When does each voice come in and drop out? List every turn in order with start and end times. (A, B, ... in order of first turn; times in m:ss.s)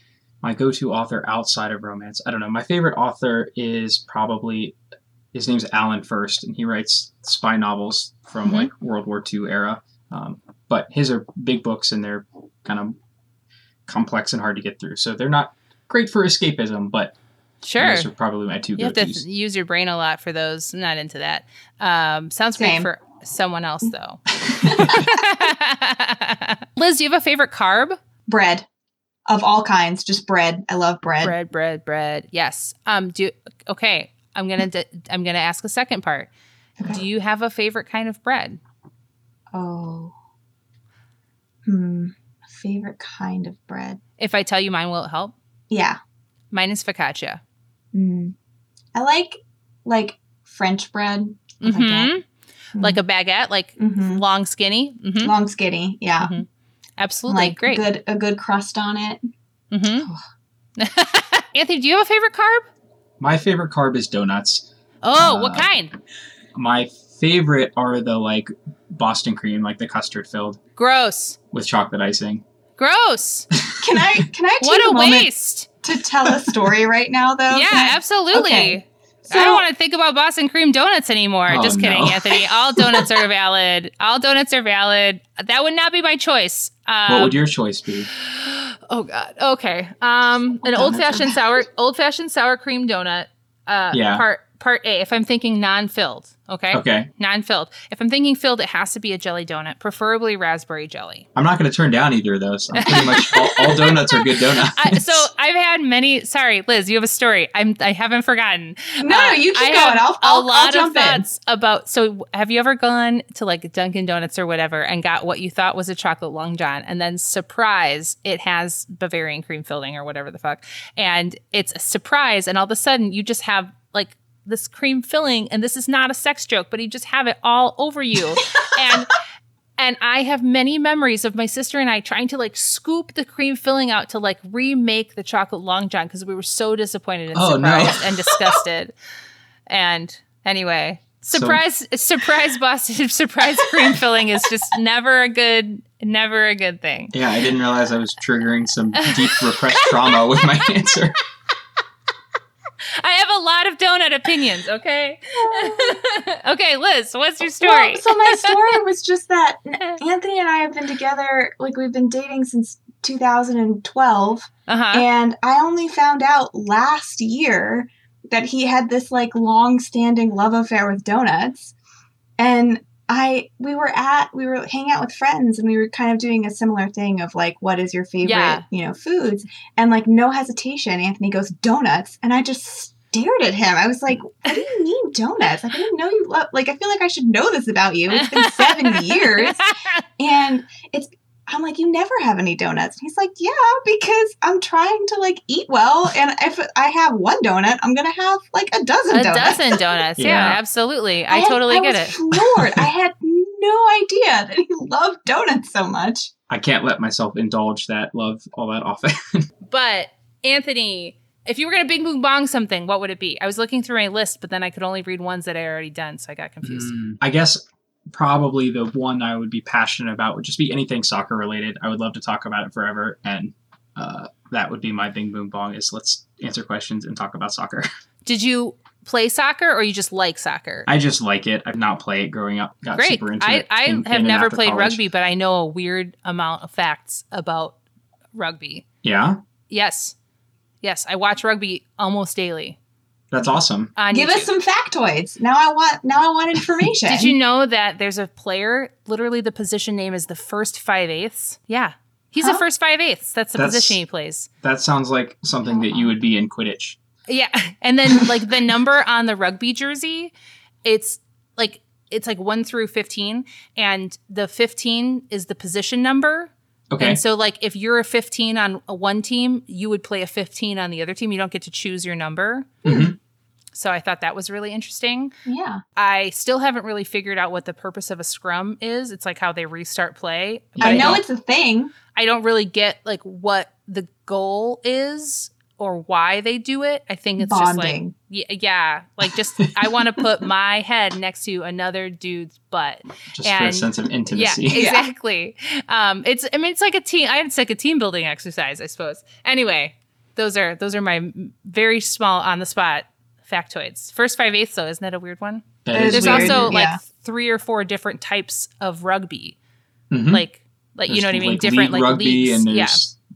0:00.4-0:04.8 A
0:05.3-0:13.0 A
0:08.4-0:08.7 B
0:13.9-0:17.1 A
0:17.6-0:18.1 B
0:17.8-0:19.2 A
0:18.8-0:28.0 B
0:22.6-0:22.9 C
0:24.5-0:25.0 A
0:24.6-0:25.2 C
0:28.3-0:28.7 C
0:29.3-0:31.4 C
0:31.2-0:36.3 B
0:36.8-0:38.6 B
0:39.5-0:40.1 C
0:41.6-0:44.0 C
0:44.2-0:45.3 B
0:45.7-0:46.0 C
0:46.5-0:47.4 B
0:47.9-0:48.4 C
0:49.0-0:52.1 C
0:51.6-0:52.2 B
0:52.8-0:55.3 B
0:53.8-0:54.2 C
0:55.2-0:56.4 C
0:56.2-0:56.5 B
0:57.0-0:57.8 B
0:57.3-0:59.3 C
0:59.7-1:00.1 B
1:00.8-1:02.7 B
1:03.2-1:05.7 A
1:05.0-1:05.9 B
1:06.5-1:10.6 A
1:10.8-1:11.4 B
1:11.5-1:12.4 A
1:12.8-1:13.5 B
1:13.5-1:14.0 A
1:13.8-1:15.3 C
1:14.6-1:15.7 B
1:15.8-1:19.7 C
1:17.5-1:27.4 B
1:21.5-1:22.4 A
1:27.1-1:28.1 A
1:28.2-1:41.3 B
1:30.6-1:31.4 C
1:33.9-1:34.2 A
1:36.7-1:37.1 A
1:41.4-1:45.3 A
1:42.8-2:09.2 B
1:49.0-1:51.3 C
2:09.8-2:18.9 B
2:17.3-2:18.6 A
2:19.7-2:27.2 B
2:21.3-2:21.6 A
2:27.1-2:31.2 A
2:29.0-2:30.2 B
2:33.0-2:38.5 B
2:35.5-2:36.0 C
2:37.6-2:51.7 C
2:44.7-2:45.0 B
2:52.4-3:19.8 C
2:58.2-2:58.6 B
3:08.2-3:10.0 B
3:19.1-3:22.2 B
3:20.2-3:20.6 A
3:21.3-3:26.3 C
3:22.6-3:22.8 A
3:26.5-3:29.5 A
3:29.7-3:36.9 B
3:36.6-3:47.9 A
3:48.3-3:50.9 B
3:50.9-3:55.0 A
3:53.0-3:57.8 B
3:58.4-3:58.8 B
3:59.0-3:59.4 A
3:59.7-4:00.2 B
4:00.8-4:02.8 B
4:03.3-4:03.9 A
4:04.0-4:04.5 B
4:04.1-4:07.4 C
4:07.1-4:14.5 B
4:13.6-4:14.0 A
4:14.6-4:17.0 A
4:15.7-4:16.1 C
4:17.3-4:20.3 B
4:20.8-4:32.8 B
4:26.9-4:27.2 A
4:32.8-4:33.1 C
4:32.8-4:33.2 A
4:33.7-4:35.3 B
4:35.5-4:35.8 C
4:36.0-4:41.2 B
4:40.8-4:41.2 A
4:40.8-4:41.9 C
4:42.2-5:09.6 B
4:47.4-4:48.1 C
4:53.3-4:54.8 A
4:54.7-4:55.1 C
5:05.8-5:06.8 A
5:05.9-5:07.0 C
5:10.1-5:10.4 A
5:10.3-5:13.0 B
5:11.1-5:13.2 A